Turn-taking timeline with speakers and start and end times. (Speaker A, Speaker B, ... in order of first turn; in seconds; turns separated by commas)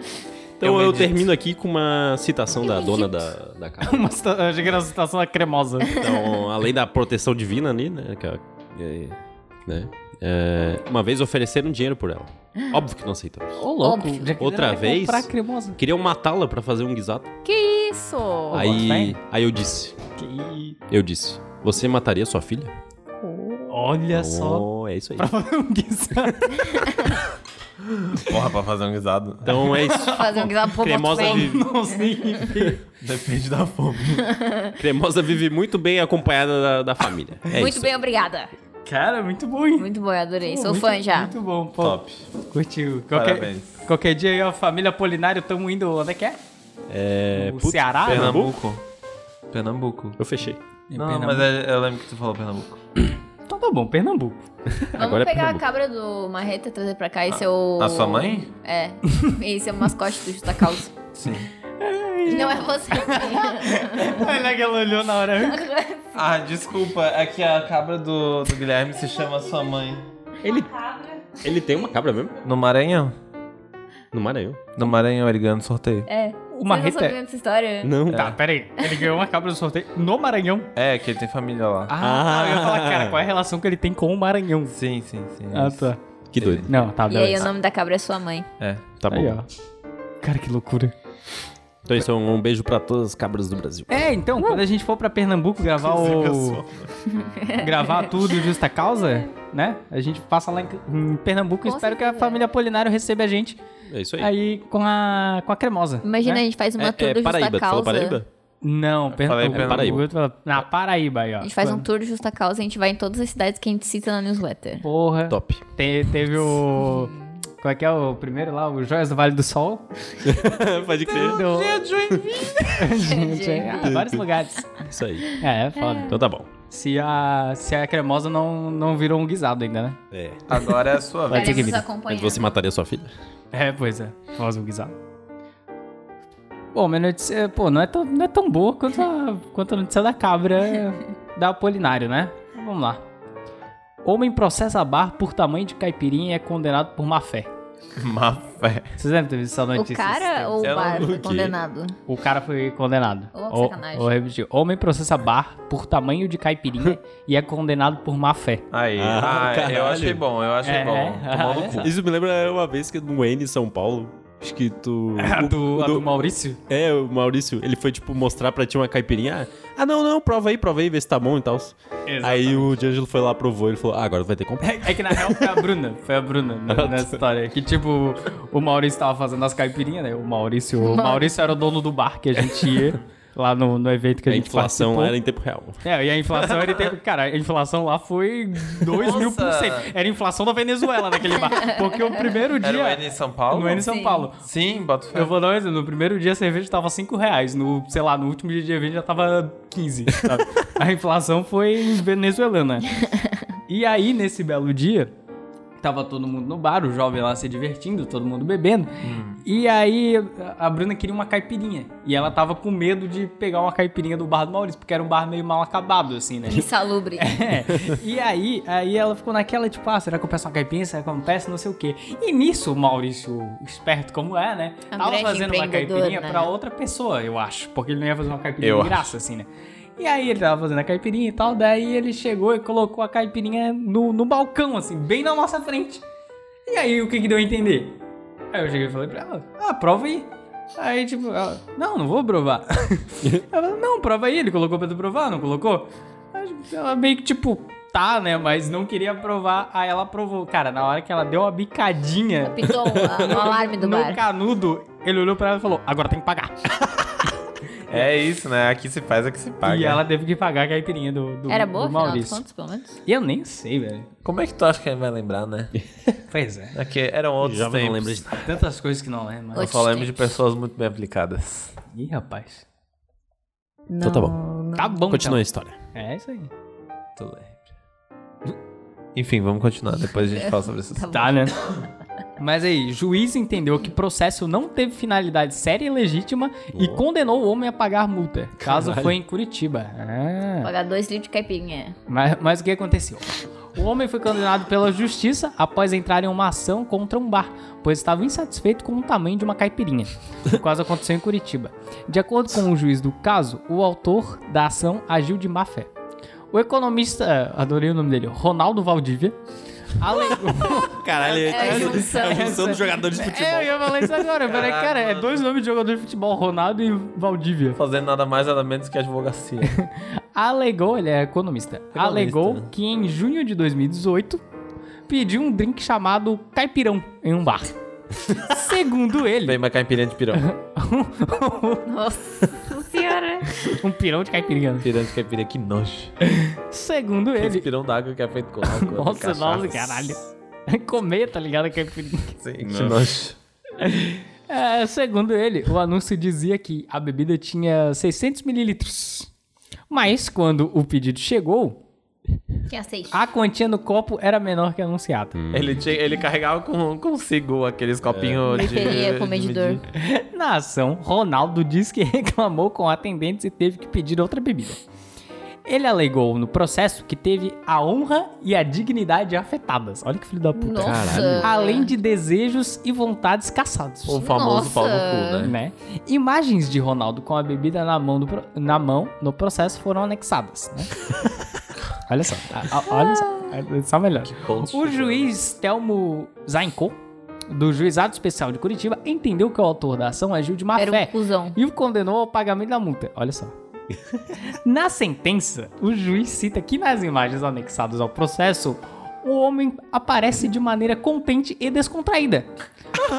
Speaker A: 0.6-4.1, Speaker B: 0.6-1.3, Speaker C: 2.6-3.3, Speaker D: 3.8-5.9, Speaker A: 5.9-13.7, Speaker D: 13.6-15.8, Speaker C: 13.8-14.3, Speaker A: 14.4-17.3, Speaker C: 17.4-18.7, Speaker D: 18.5-19.2, Speaker A: 18.5-20.0, Speaker D: 20.2-20.8, Speaker A: 20.9-22.7, Speaker C: 23.2-23.8, Speaker D: 23.7-24.7, Speaker A: 24.1-25.3, Speaker D: 25.2-26.9, Speaker B: 27.8-29.7, Speaker A: 29.4-31.6, Speaker D: 29.8-30.5, Speaker C: 30.0-32.1, Speaker D: 31.1-32.8, Speaker B: 33.0-34.3, Speaker C: 34.2-34.7, Speaker A: 34.8-37.9, Speaker C: 37.5-38.5, Speaker D: 38.9-39.9, Speaker C: 39.8-41.4, Speaker D: 40.4-46.4, Speaker B: 41.8-42.3, Speaker B: 43.1-43.7, Speaker A: 46.9-48.5, Speaker D: 47.3-48.4, Speaker B: 48.0-48.8, Speaker B: 49.5-50.2, Speaker A: 50.2-50.6, Speaker D: 50.9-51.5, Speaker B: 51.0-52.8, Speaker D: 53.5-54.5, Speaker A: 54.8-55.6, Speaker C: 55.0-61.0, Speaker B: 57.3-58.5, Speaker B: 61.1-61.5, Speaker D: 61.8-65.7, Speaker C: 62.2-64.4, Speaker C: 65.3-66.3, Speaker B: 66.2-70.0, Speaker D: 70.4-70.8, Speaker C: 70.6-71.2, Speaker A: 71.4-72.4, Speaker B: 72.4-73.2, Speaker A: 74.1-74.7, Speaker B: 74.8-76.1, Speaker C: 76.1-78.0, Speaker D: 76.5-77.2, Speaker A: 77.8-78.3, Speaker B: 78.1-78.4, Speaker D: 78.1-80.7, Speaker B: 80.8-81.9, Speaker D: 81.9-84.8, Speaker A: 82.0-83.2, Speaker B: 84.7-86.7, Speaker D: 85.5-86.0, Speaker A: 86.3-86.8, Speaker D: 86.7-87.5, Speaker C: 87.1-88.5, Speaker B: 88.6-88.8, Speaker A: 89.0-89.4, Speaker D: 89.1-89.5, Speaker D: 90.2-90.9, Speaker A: 91.9-94.1, Speaker D: 93.9-96.6, Speaker B: 95.6-96.9, Speaker C: 97.1-98.3, Speaker D: 97.6-103.6, Speaker C: 101.6-102.5, Speaker A: 103.9-104.3, Speaker D: 104.2-106.4, Speaker C: 106.0-108.2, Speaker A: 106.8-108.3, Speaker D: 108.6-111.9, Speaker B: 109.1-110.1, Speaker A: 109.5-110.0, Speaker C: 111.4-114.8, Speaker D: 114.8-119.9, Speaker A: 115.3-115.6, Speaker C: 116.8-117.2, Speaker A: 120.2-121.4, Speaker B: 121.1-123.0, Speaker D: 121.1-121.8, Speaker D: 122.7-124.7, Speaker C: 123.0-124.0, Speaker A: 123.8-124.2, Speaker A: 124.8-125.4, Speaker D: 125.4-126.2, Speaker C: 125.8-126.1, Speaker A: 126.1-126.5, Speaker D: 126.7-130.0, Speaker A: 130.1-130.4, Speaker B: 130.5-131.8, Speaker D: 131.3-131.8, Speaker C: 131.3-132.5, Speaker A: 132.1-133.1, Speaker D: 133.5-134.9, Speaker D: 136.7-143.0, Speaker D: 144.0-147.5, Speaker B: 148.0-148.9, Speaker D: 149.0-150.8, Speaker C: 149.8-152.0, Speaker B: 150.6-151.2, Speaker A: 150.8-151.6, Speaker D: 152.1-158.6, Speaker C: 153.3-154.1, Speaker B: 158.7-161.9, Speaker A: 159.0-160.2, Speaker D: 160.6-161.8, Speaker A: 161.8-166.1, Speaker D: 165.2-166.6, Speaker A: 166.7-175.6, Speaker D: 172.1-172.8, Speaker D: 174.6-185.2, Speaker A: 176.7-177.2, Speaker C: 180.8-181.5, Speaker A: 184.3-185.8, Speaker D: 185.8-194.4, Speaker B: 188.9-189.9, Speaker C: 191.4-192.2, Speaker B: 192.6-195.3, Speaker C: 193.8-194.3, Speaker D: 195.1-202.9, Speaker D: 203.7-205.1, Speaker D: 205.8-236.0, Speaker B: 209.0-209.4, Speaker C: 216.5-217.5, Speaker C: 224.9-226.5, Speaker B: 228.6-229.1, Speaker D: 236.7-238.0, Speaker D: 238.5-256.7, Speaker C: 252.4-254.2, Speaker A: 252.8-253.3, Speaker B: 257.9-260.0, Speaker D: 259.6-262.4, Speaker C: 261.5-263.0, Speaker D: 263.1-264.1, Speaker B: 264.2-265.7, Speaker D: 266.3-266.8, Speaker B: 266.7-268.4, Speaker A: 267.4-268.4, Speaker D: 268.4-269.7, Speaker C: 269.5-270.2, Speaker B: 269.6-271.7, Speaker D: 271.9-272.6, Speaker C: 273.9-275.0, Speaker A: 274.0-274.4, Speaker D: 274.8-275.4, Speaker A: 275.1-275.8, Speaker D: 275.9-276.5, Speaker B: 279.1-281.1, Speaker C: 280.2-281.8, Speaker D: 281.1-281.6, Speaker D: 282.4-290.7, Speaker A: 286.7-287.0, Speaker A: 288.6-289.2, Speaker C: 290.6-292.0, Speaker D: 292.1-305.9, Speaker D: 306.5-309.4, Speaker D: 309.9-317.8, Speaker A: 310.4-314.3, Speaker C: 311.4-312.8, Speaker B: 314.4-315.4, Speaker B: 317.8-319.8, Speaker D: 319.6-324.4, Speaker B: 321.9-322.7, Speaker D: 325.1-327.7, Speaker D: 328.3-329.6, Speaker B: 329.4-330.5, Speaker D: 330.3-331.9, Speaker C: 331.9-333.8, Speaker D: 333.6-334.9, Speaker B: 334.8-336.1, Speaker D: 336.2-337.7, Speaker B: 337.4-340.1, Speaker D: 338.7-342.4, Speaker B: 342.4-343.4, Speaker A: 342.7-343.0, Speaker D: 343.8-349.3, Speaker D: 349.9-351.8, Speaker C: 352.7-353.2, Speaker D: 353.1-355.3, Speaker A: 355.3-355.8, Speaker B: 355.5-359.9, Speaker A: 358.1-359.0, Speaker C: 358.5-359.8, Speaker D: 359.9-364.8, Speaker D: 365.6-374.2, Speaker C: 370.6-371.9, Speaker A: 370.8-371.5, Speaker B: 374.1-375.6, Speaker C: 374.2-375.5, Speaker D: 375.4-381.0, Speaker D: 382.1-387.0, Speaker C: 382.9-383.5, Speaker B: 384.2-385.3, Speaker D: 387.5-393.6, Speaker C: 390.8-391.6, Speaker D: 394.4-402.5